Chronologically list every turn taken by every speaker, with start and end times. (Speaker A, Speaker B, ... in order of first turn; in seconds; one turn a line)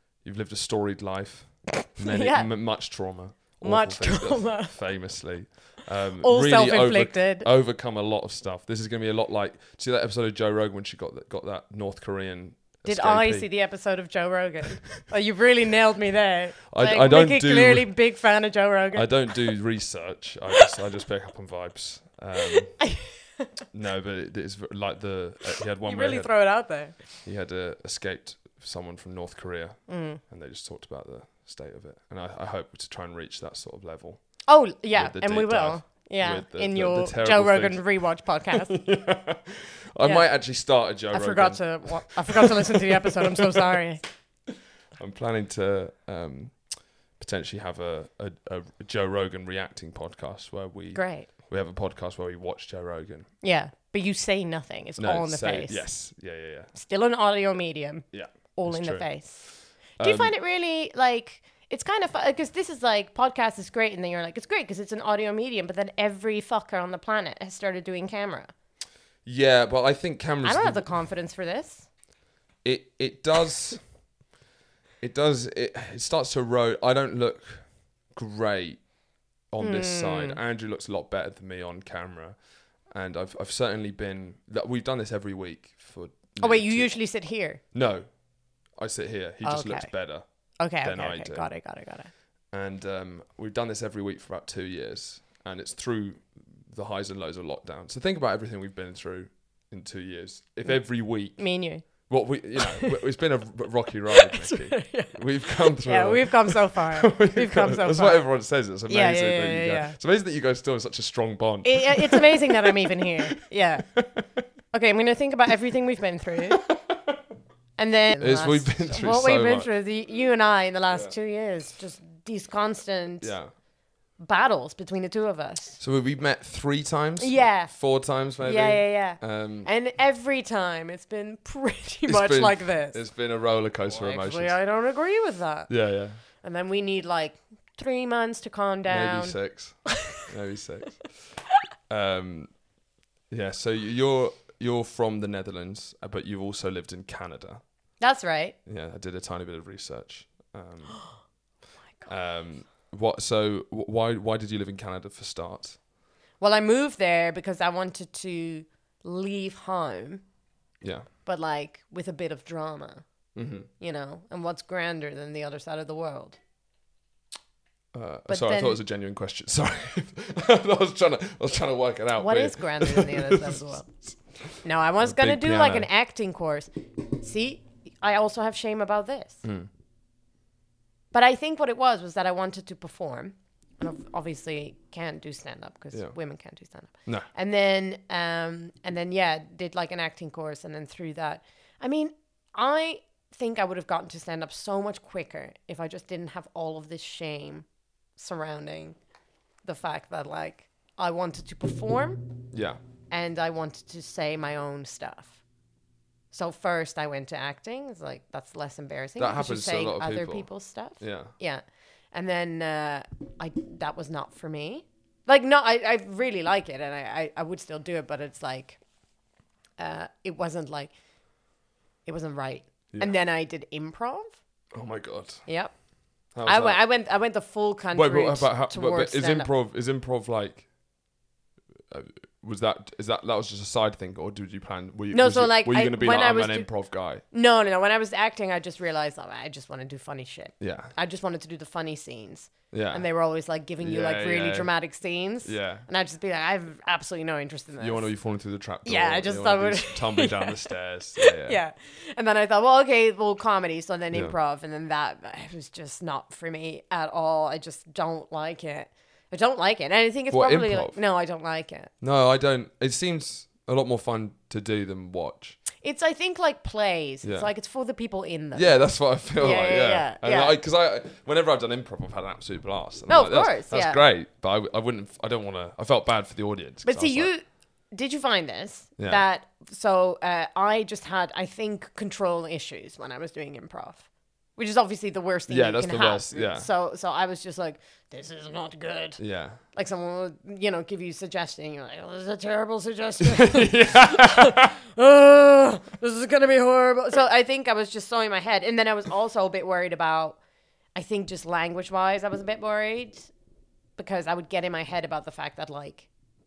Speaker A: 0.2-13.5
Speaker B: 1.9-2.5
Speaker B: 3.6-4.8
Speaker B: 6.2-7.5
Speaker B: 12.9-19.4
Speaker A: 16.7-17.9
Speaker A: 18.9-22.8
Speaker B: 22.4-23.5
Speaker A: 23.7-26.3
Speaker B: 25.8-27.1
Speaker A: 27.2-34.4
Speaker B: 29.9-30.2
Speaker B: 34.5-38.8
Speaker A: 35.0-37.9
Speaker A: 38.5-43.8
Speaker B: 41.1-44.0
Speaker A: 45.0-46.6
Speaker A: 47.2-53.3
Speaker B: 50.9-51.3
Speaker B: 53.4-55.9
Speaker A: 55.0-56.7
Speaker B: 56.7-68.5
Speaker A: 58.1-60.3
Speaker A: 69.2-70.8
Speaker B: 70.4-71.9
Speaker A: 72.6-73.8
Speaker A: 75.0-78.8
Speaker A: 79.5-87.0
Speaker B: 79.6-80.4
Speaker B: 86.4-87.6
Speaker A: 87.7-88.1
Speaker A: 88.8-90.2
Speaker B: 89.4-89.9
Speaker B: 90.6-92.1
Speaker A: 90.8-91.5
Speaker A: 92.5-101.5
Speaker B: 101.4-101.8
Speaker A: 102.1-114.4
Speaker B: 102.6-103.0
Speaker B: 104.1-108.2
Speaker B: 108.9-110.0
Speaker B: 111.7-113.9
Speaker B: 114.7-116.6
Speaker A: 116.5-117.2
Speaker B: 117.8-123.3
Speaker A: 118.2-119.7
Speaker A: 123.2-123.5
Speaker B: 124.2-125.8
Speaker A: 125.8-129.7
Speaker B: 127.2-127.7
Speaker B: 128.4-133.0
Speaker A: 132.1-134.6
Speaker B: 133.9-135.7
Speaker A: 135.7-136.2
Speaker B: 136.4-139.4
Speaker A: 138.9-141.2
Speaker A: 141.9-142.5
Speaker A: 143.3-147.6
Speaker B: 148.0-148.6
Speaker A: 148.7-151.0
Speaker A: 152.1-155.8
Speaker B: 156.4-160.2
Speaker A: 160.8-161.1
Speaker B: 161.2-163.1
Speaker A: 163.3-163.7
Speaker B: 163.8-166.4
Speaker A: 167.9-175.9
Speaker B: 168.3-168.8
Speaker B: 172.2-173.9
Speaker B: 174.6-179.4
Speaker A: 179.4-179.7
Speaker B: 181.1-199.0
Speaker B: 199.6-202.3
Speaker A: 202.5-202.8
Speaker B: 203.1-205.4
Speaker B: 206.3-218.8
Speaker A: 209.2-210.5
Speaker A: 211.0-211.3
Speaker B: 219.8-220.9
Speaker B: 222.1-224.4
Speaker A: 224.7-225.4
Speaker B: 225.5-225.8
Speaker A: 226.3-226.8
Speaker B: 226.4-229.5
Speaker A: 227.9-230.7
Speaker A: 231.9-237.2
Speaker B: 235.1-236.7
Speaker B: 237.3-248.1
Speaker A: 240.6-240.9
Speaker A: 242.7-243.0
Speaker A: 243.8-244.7
Speaker A: 245.4-245.9
Speaker A: 247.8-251.6
Speaker B: 248.8-261.9
Speaker A: 260.3-261.0
Speaker A: 262.0-265.6
Speaker B: 265.8-268.8
Speaker A: 267.2-267.5
Speaker A: 268.5-277.3
Speaker B: 269.4-270.6
Speaker B: 273.1-274.0
Speaker B: 276.9-289.2
Speaker A: 285.5-286.7
Speaker A: 289.2-289.6
Speaker B: 289.7-300.4
Speaker A: 293.2-294.8
Speaker B: 300.9-303.3
Speaker B: 304.0-306.1